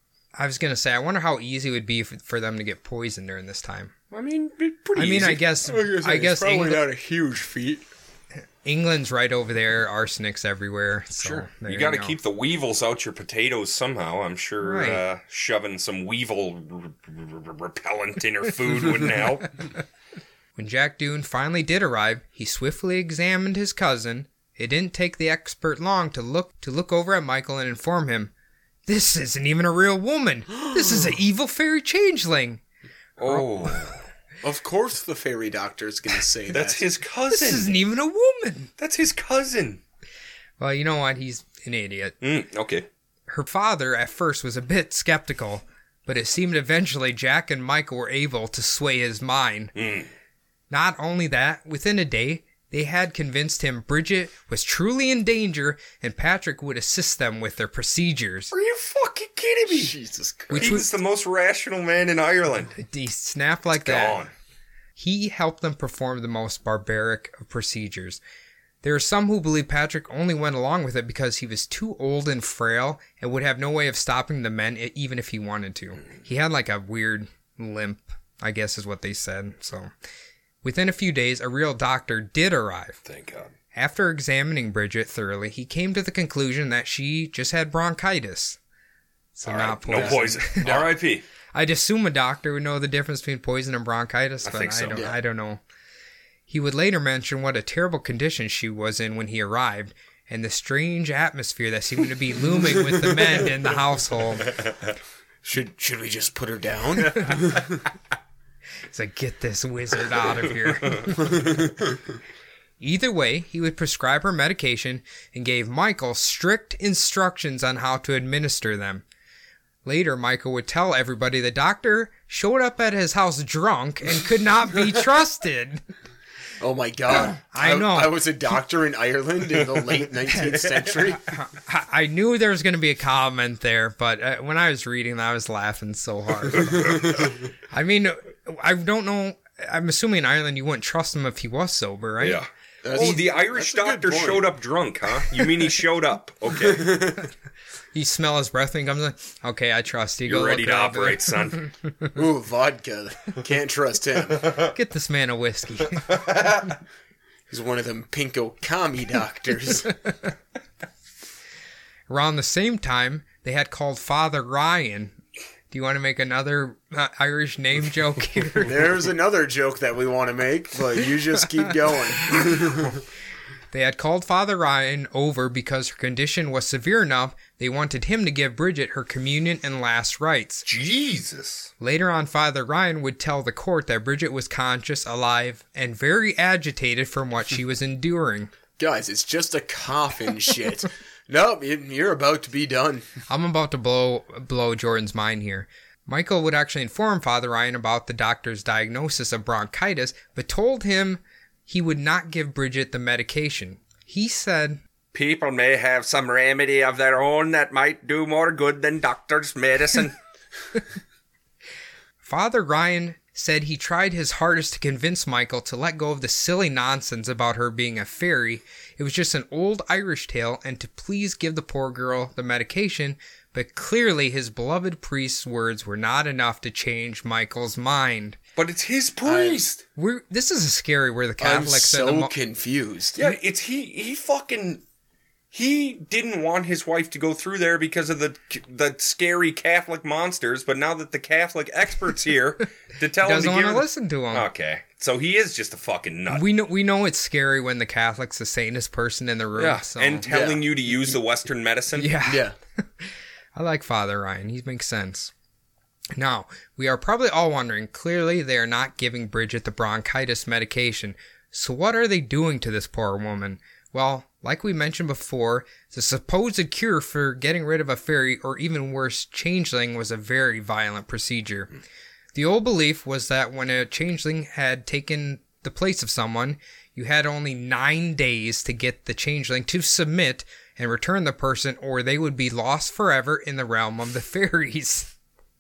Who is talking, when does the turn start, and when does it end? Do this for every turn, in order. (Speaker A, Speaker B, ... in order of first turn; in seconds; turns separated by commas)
Speaker A: 0.4-3.9, Speaker B: 4.1-5.4, Speaker A: 5.0-6.8, Speaker C: 5.7-7.9, Speaker A: 8.7-12.2, Speaker B: 11.2-19.7, Speaker A: 14.6-15.0, Speaker A: 20.6-28.3, Speaker A: 28.9-32.6, Speaker B: 33.2-34.0, Speaker A: 33.2-33.9, Speaker C: 34.4-36.8, Speaker B: 36.5-37.8, Speaker A: 37.3-38.7, Speaker B: 38.8-39.8, Speaker A: 40.6-42.2, Speaker B: 42.2-42.9, Speaker A: 43.3-49.7, Speaker B: 49.8-50.1, Speaker A: 50.7-58.5, Speaker B: 58.5-60.0, Speaker C: 59.7-60.8, Speaker A: 60.5-60.9, Speaker B: 60.5-62.7, Speaker A: 62.8-64.2, Speaker B: 63.7-64.3, Speaker A: 65.0-68.2, Speaker A: 68.8-79.9, Speaker A: 80.6-83.0, Speaker B: 83.0-83.5, Speaker A: 83.7-88.6, Speaker A: 89.4-90.7, Speaker B: 89.5-91.2, Speaker C: 89.9-90.9, Speaker A: 91.5-95.6, Speaker B: 94.5-95.0, Speaker A: 96.5-104.5, Speaker C: 105.5-107.7, Speaker A: 108.9-111.4, Speaker C: 111.3-111.6, Speaker A: 112.8-119.0, Speaker A: 119.8-125.8, Speaker C: 126.6-131.3, Speaker A: 127.5-128.2, Speaker A: 131.3-136.9, Speaker B: 136.6-136.9, Speaker A: 137.7-142.4, Speaker B: 142.2-147.0, Speaker C: 142.8-144.5, Speaker C: 146.6-147.3, Speaker A: 147.9-151.7, Speaker B: 150.3-151.6, Speaker C: 152.2-154.6, Speaker A: 154.7-156.1, Speaker B: 156.1-156.5, Speaker C: 157.5-159.9, Speaker A: 162.1-165.2, Speaker A: 165.7-168.7, Speaker C: 168.7-173.0, Speaker A: 173.7-180.7, Speaker B: 180.7-181.7, Speaker A: 181.8-188.5, Speaker C: 188.8-193.1, Speaker A: 193.3-204.8, Speaker B: 205.1-210.2, Speaker A: 212.2-228.4, Speaker B: 228.6-229.8, Speaker C: 229.2-229.6, Speaker A: 230.0-232.3, Speaker C: 231.4-233.2, Speaker B: 233.2-234.8, Speaker B: 235.5-246.5, Speaker A: 243.2-244.5, Speaker A: 246.3-250.3, Speaker B: 249.6-252.2, Speaker C: 250.3-251.2, Speaker A: 252.0-252.4, Speaker C: 252.3-252.6, Speaker A: 253.0-255.3, Speaker A: 256.2-271.7, Speaker A: 272.4-285.1